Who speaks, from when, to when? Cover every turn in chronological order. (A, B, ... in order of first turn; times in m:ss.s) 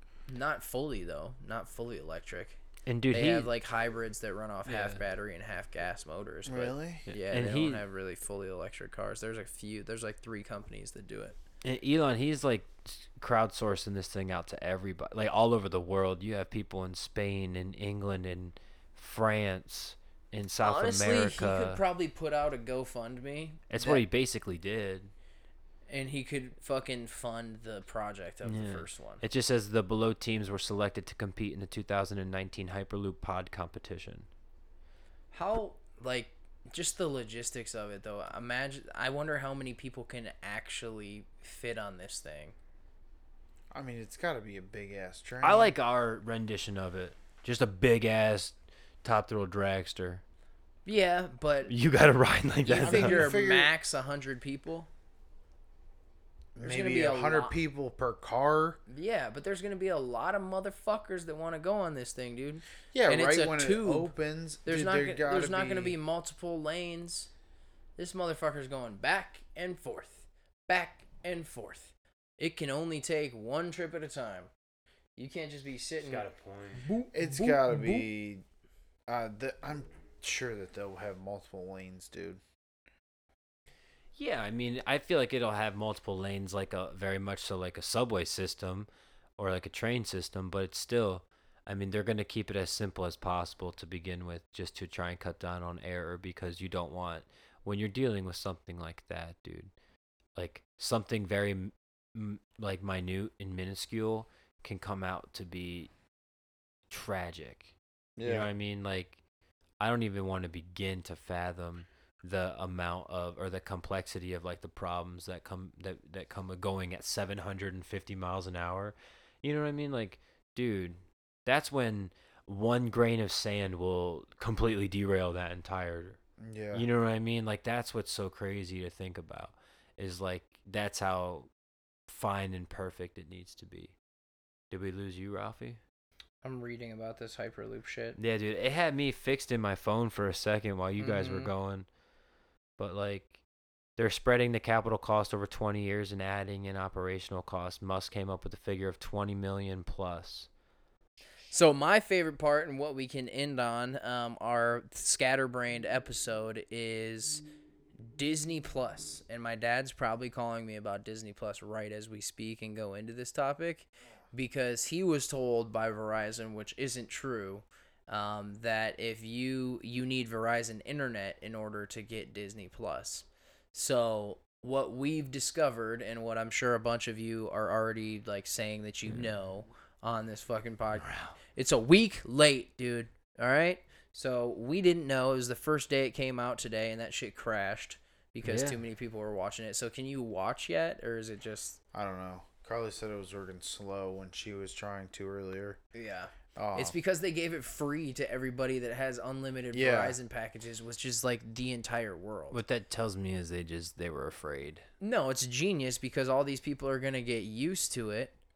0:00.3-0:02.6 A
0:02.9-0:03.5 B
0:03.1-0:11.4 A
0:04.7-0:05.0 B
0:06.4-0:07.1 C
0:07.1-0:07.8 B
0:11.6-0:21.8 B
0:20.6-0:24.0 A
0:23.7-0:25.1 B
0:25.9-0:29.2 A
0:28.4-0:34.3 B
0:35.3-0:42.6 A
0:43.7-0:45.7 C
0:45.4-0:50.2 B
0:50.8-0:51.7 A
0:51.7-0:53.3 B
0:52.6-0:54.9 A
0:52.8-0:53.7 C
0:56.6-0:58.8 C
0:56.6-0:57.6 A
0:58.9-1:04.1 A
1:02.9-1:06.0 C
1:04.6-1:07.3 A
1:08.0-1:14.5 A
1:15.2-1:16.3 A
1:16.0-1:16.8 B
1:16.8-1:18.1 A
1:17.1-1:18.4 C
1:19.1-1:22.4 C
1:24.2-1:39.7 B
1:40.4-1:45.9 B
1:46.9-1:47.7 B
1:48.2-1:48.5 C
1:48.2-1:49.2 B
1:49.8-2:06.2 B
2:06.4-2:06.9 C
2:06.7-2:11.5 B
2:12.1-2:13.9 B
2:14.7-2:15.8 B
2:16.4-2:18.2 A
2:18.2-2:21.9 B
2:21.0-2:21.5 A
2:22.8-2:23.4 B
2:24.0-2:30.5 B
2:31.5-2:37.4 A
2:38.1-3:11.8 A
3:01.0-3:01.4 B
3:08.4-3:08.8 B
3:11.9-3:15.8 C
3:16.0-3:22.6 A
3:16.6-3:17.0 C
3:19.7-3:20.2 C
3:22.5-3:24.8 B
3:25.0-3:28.4 A